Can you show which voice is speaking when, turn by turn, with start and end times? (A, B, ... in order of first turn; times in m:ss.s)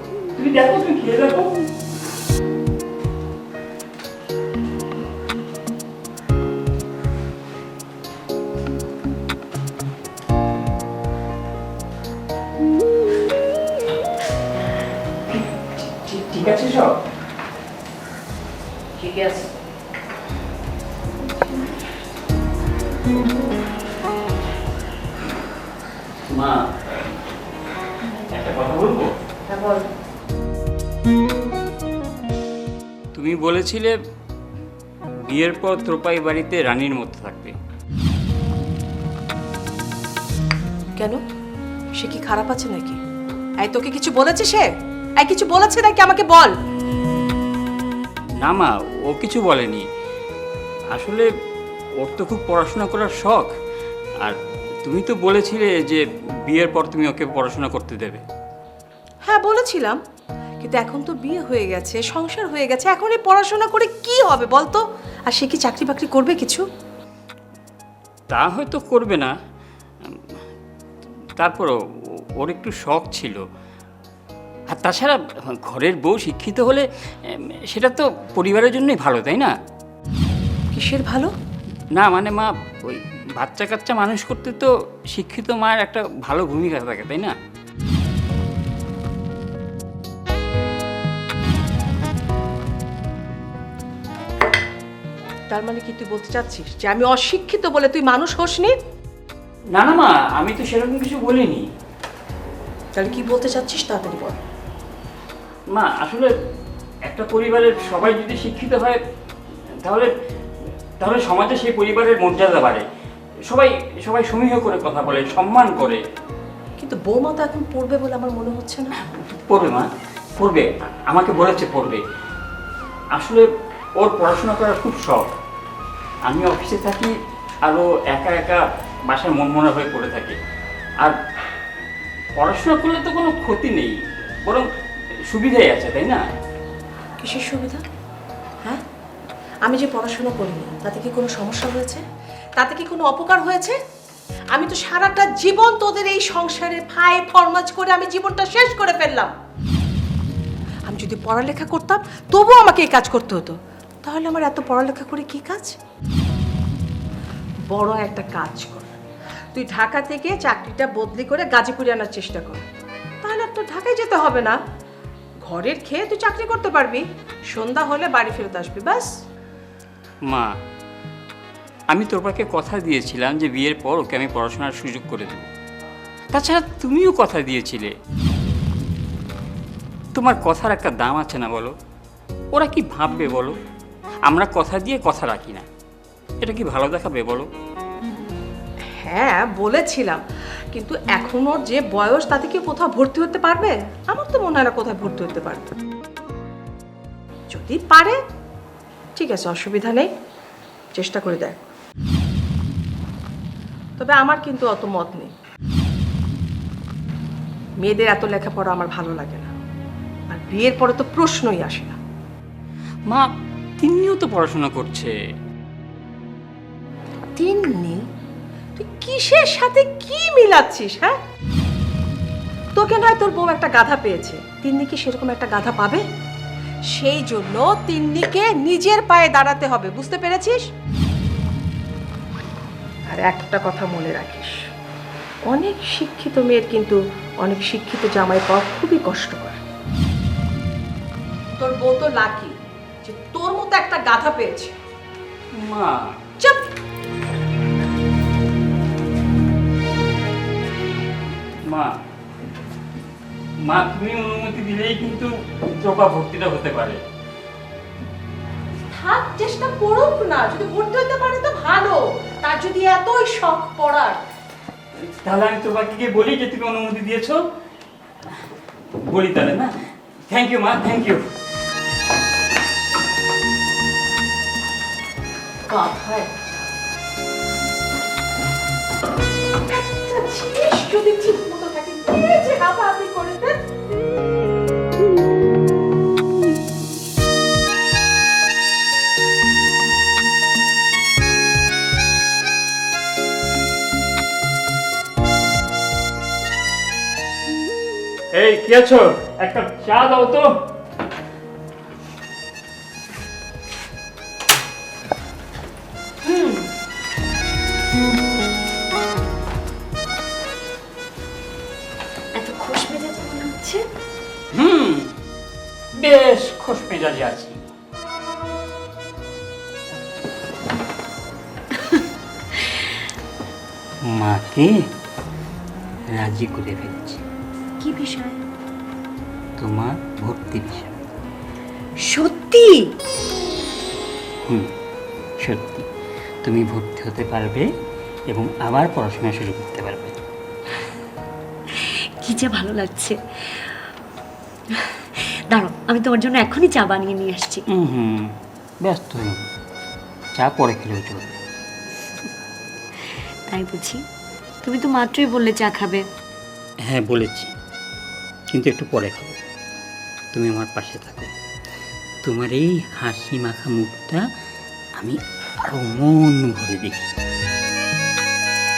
0:00.4-0:01.5 A
0:15.3-0:17.0 A
0:19.0-0:19.5 B
0:26.3-0:27.2 A
0:28.3-0:29.1 A
0:29.5-0:29.8 B
0:33.1-0:34.0 A
0:35.2-0:37.6 A
0:42.0-0:43.0 B
0:43.6-0:46.5 B
0:48.4-0:49.9 A
0:50.9-0:51.3 A
0:52.0-0:53.5 A
0:54.2-0:58.2 A
0:59.2-1:00.0 B
1:00.6-1:06.6 B
1:08.3-1:09.3 A
1:11.4-1:11.8 A
1:12.4-1:13.4 A
1:14.7-1:19.6 A
1:20.7-1:21.3 B
1:22.0-1:27.4 A
1:35.5-1:38.8 B
1:39.7-1:41.7 A
1:43.0-1:44.4 B
1:45.7-1:46.3 A
1:47.0-1:49.0 A
1:49.8-1:50.1 A
1:51.0-1:52.9 A
1:53.5-1:56.0 A
1:56.8-1:58.9 B
1:59.1-1:59.9 A
2:00.4-2:02.0 A
2:03.2-2:03.4 A
2:04.0-2:05.3 A
2:06.3-2:07.1 A
2:07.6-2:10.4 A
2:12.4-2:14.7 A
2:15.3-2:16.3 A
2:17.2-2:17.8 B
2:19.6-2:22.0 B
2:22.6-2:23.8 B
2:24.5-2:29.3 B
2:30.9-2:35.8 B
2:37.7-2:39.0 B
2:39.5-2:42.6 B
2:43.2-2:44.6 B
2:45.5-2:49.1 B
2:50.3-2:50.5 A
2:51.9-2:55.5 A
2:56.3-2:57.9 A
3:00.2-3:01.7 A
3:02.5-3:03.6 A
3:04.2-3:05.7 A
3:06.4-3:07.5 A
3:09.0-3:15.7 B
3:17.5-3:18.2 B
3:19.2-3:20.1 B
3:21.0-3:21.6 B
3:24.0-3:25.3 B
3:27.8-3:29.5 B
3:30.3-3:32.0 B
3:33.8-3:35.1 A
3:37.4-3:38.0 B
3:38.8-3:41.2 B
3:42.8-3:46.0 B
3:46.9-3:50.6 B
3:53.1-3:54.7 B
3:55.5-3:59.6 B
4:01.6-4:04.8 B
4:05.6-4:06.2 A
4:11.7-4:11.9 A
4:13.6-4:17.0 A
4:18.9-4:24.2 B
4:25.0-4:27.4 A
4:29.0-4:29.7 A
4:30.3-4:31.2 A
4:35.7-4:36.6 B
4:39.7-4:43.6 B
4:58.3-5:00.6 A
5:06.2-5:06.7 C
5:12.4-5:13.8 C
5:14.5-5:15.1 A
5:16.0-5:17.6 A
5:21.7-5:22.9 C
5:24.0-5:24.8 A
5:26.1-5:27.2 A
5:27.8-5:28.4 C
5:29.6-5:30.9 A
5:32.0-5:32.8 C
5:35.4-5:35.9 A
5:36.4-5:37.7 A
5:38.3-5:40.2 A
5:41.7-5:43.9 C
5:44.8-5:47.6 C
5:47.7-5:49.5 A
5:50.4-5:51.4 A
5:53.5-5:54.0 C
5:54.6-5:56.0 C
5:56.8-5:57.5 A
5:58.5-5:59.4 A
6:00.3-6:01.3 A
6:02.2-6:04.2 A
6:05.0-6:07.1 A